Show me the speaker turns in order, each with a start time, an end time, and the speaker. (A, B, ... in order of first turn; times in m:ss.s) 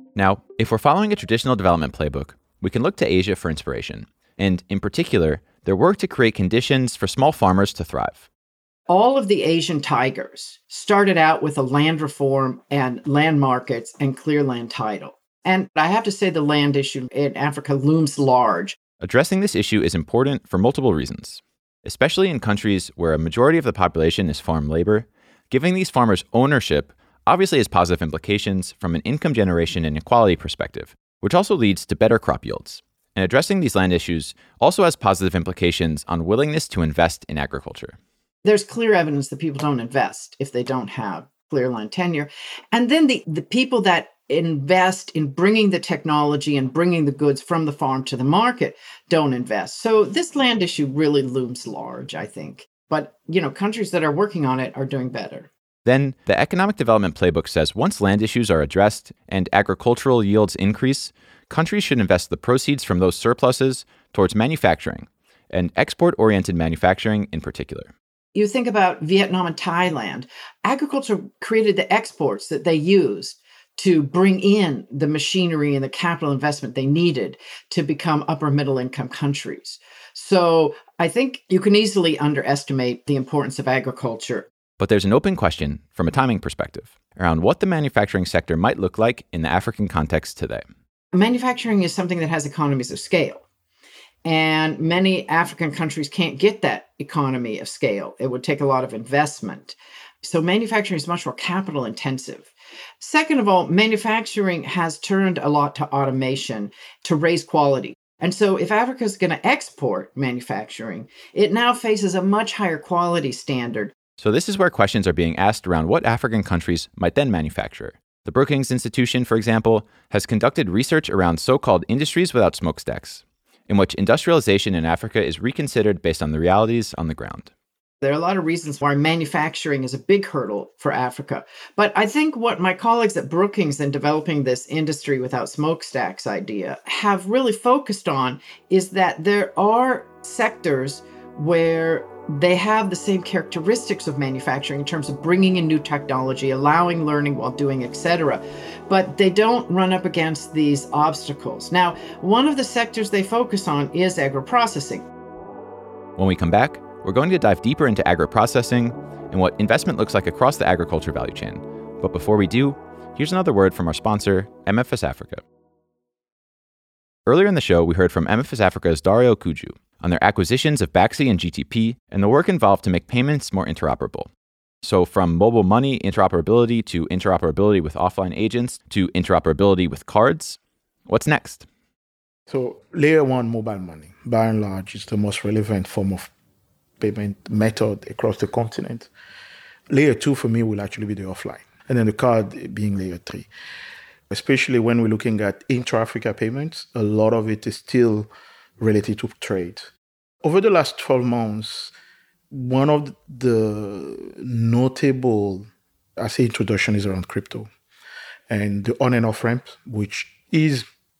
0:00.2-0:08.2 A
0:08.9-0:18.8 B
0:19.0-0:38.0 A
0:38.4-0:55.5 B
0:55.8-1:07.9 A
1:08.3-1:24.5 B
1:24.8-1:30.6 A
1:31.1-1:33.4 B
1:34.2-1:42.5 B
1:43.0-1:53.9 B
1:54.2-2:07.5 A
2:08.0-2:35.0 B
2:36.2-2:45.4 A
2:47.2-2:54.3 A
2:54.8-3:01.6 A
3:02.5-3:06.3 C
3:07.0-3:09.1 C
3:09.9-3:13.5 C
3:14.3-3:19.9 C
3:20.4-3:21.9 C
3:22.5-3:25.6 C
3:26.2-3:27.7 C
3:28.5-3:30.8 C